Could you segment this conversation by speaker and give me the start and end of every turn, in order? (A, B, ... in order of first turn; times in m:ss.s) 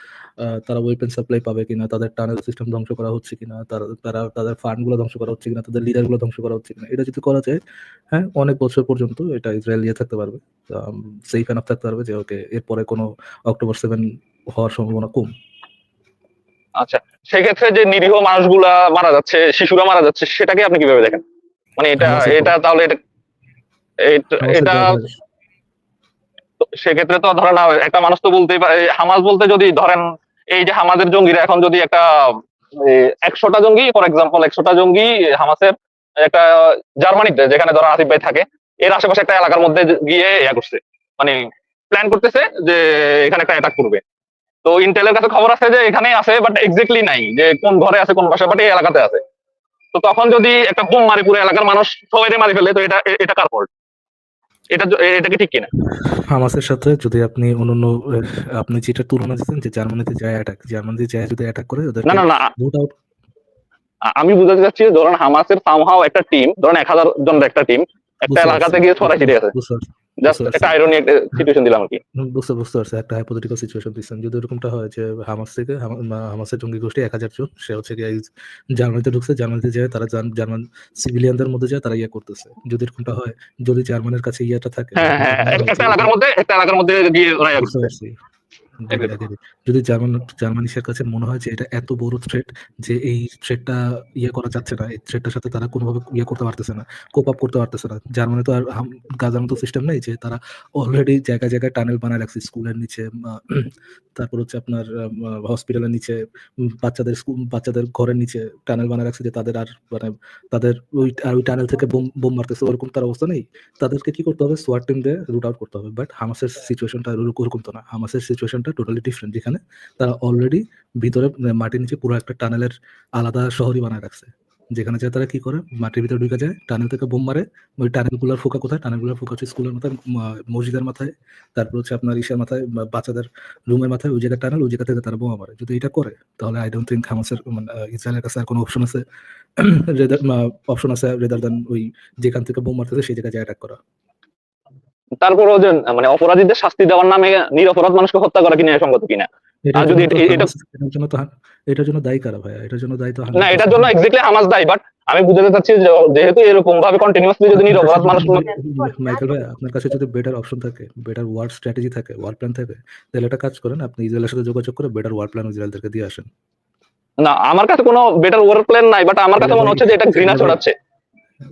0:00.4-0:07.6 A
0:08.1-0:15.3 A
0:16.8-0:21.2 B
0:21.8-0:23.0 B
0:22.0-0:22.5 A
0:24.0-0:25.0 B
0:24.4-0:25.1 A
0:26.6-0:44.0 B
0:44.6-0:49.2 B
0:49.9-0:53.7 B
0:54.7-0:55.7 B
0:55.8-1:02.9 A
1:02.0-1:02.5 B
1:04.1-1:09.5 B
1:08.3-1:10.8 A
1:10.2-1:12.0 B
1:12.2-1:26.1 A
1:25.0-1:27.9 B
1:27.6-1:28.1 A
1:28.8-2:19.0 A
2:19.6-2:23.8 A
2:25.2-2:30.5 B
2:29.6-2:33.9 A
2:33.3-2:38.4 B
2:37.5-2:46.3 A
2:47.2-2:50.7 B
2:49.4-2:50.6 A